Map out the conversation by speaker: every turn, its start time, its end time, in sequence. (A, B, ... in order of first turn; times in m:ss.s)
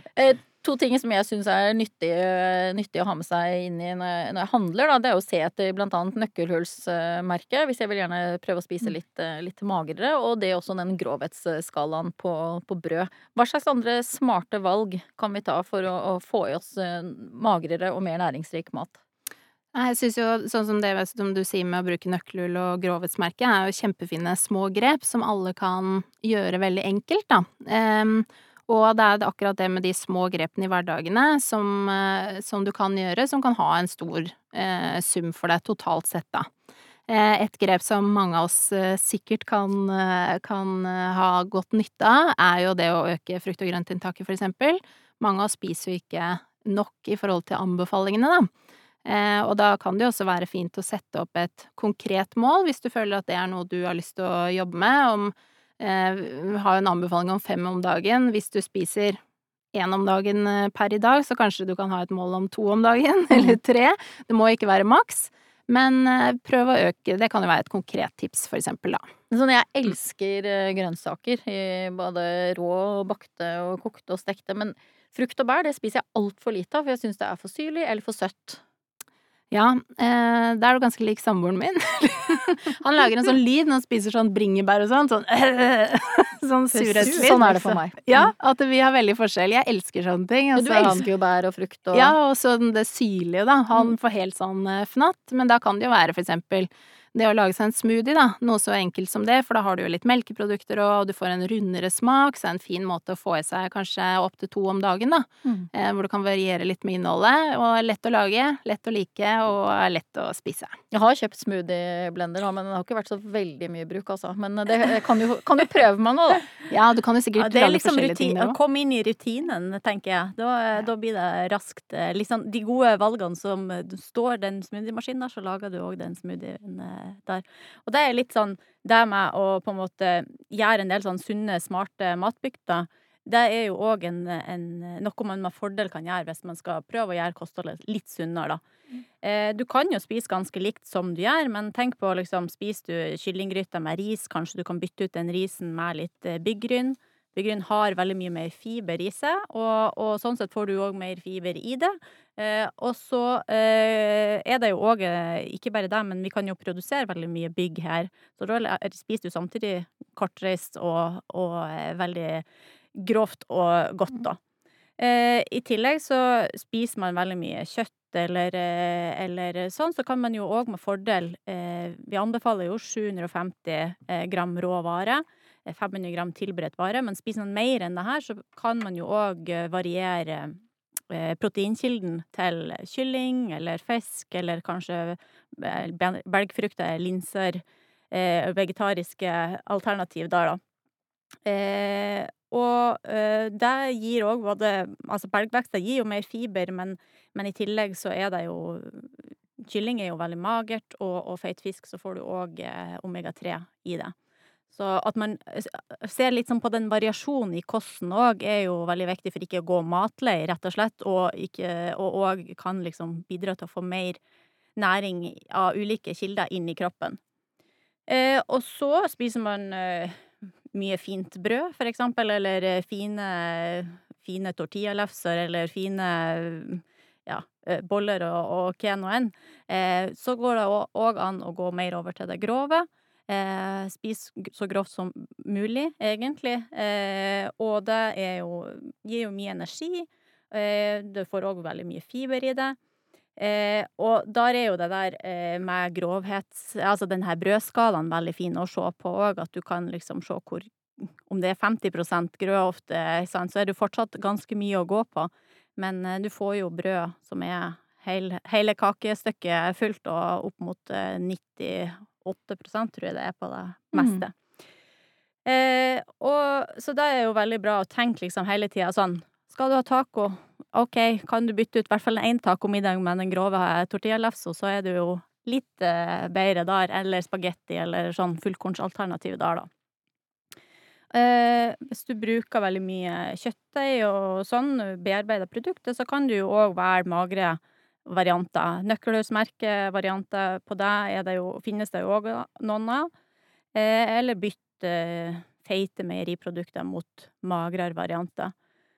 0:00.1-0:19.0 A
0:19.7-0:36.5 B
0:37.1-0:48.5 B
0:49.0-0:59.2 B
0:59.7-1:09.1 B
1:09.3-1:18.6 A
1:19.5-1:31.0 B
1:26.8-1:28.3 A
1:26.9-1:27.4 C
1:30.6-1:32.1 A
1:31.9-1:50.8 B
1:50.9-1:56.5 A
1:56.7-1:58.6 B
1:57.4-2:18.6 C
2:19.2-2:44.4 C
2:45.0-3:00.6 C
3:01.1-3:10.6 C
3:11.4-3:24.1 C
3:24.7-3:34.2 C
3:34.8-3:37.2 C
3:38.1-4:02.8 C
4:03.4-4:24.4 C
4:23.9-4:24.2 A
4:25.4-4:39.7 C
4:41.1-4:53.1 C
4:53.7-4:58.5 C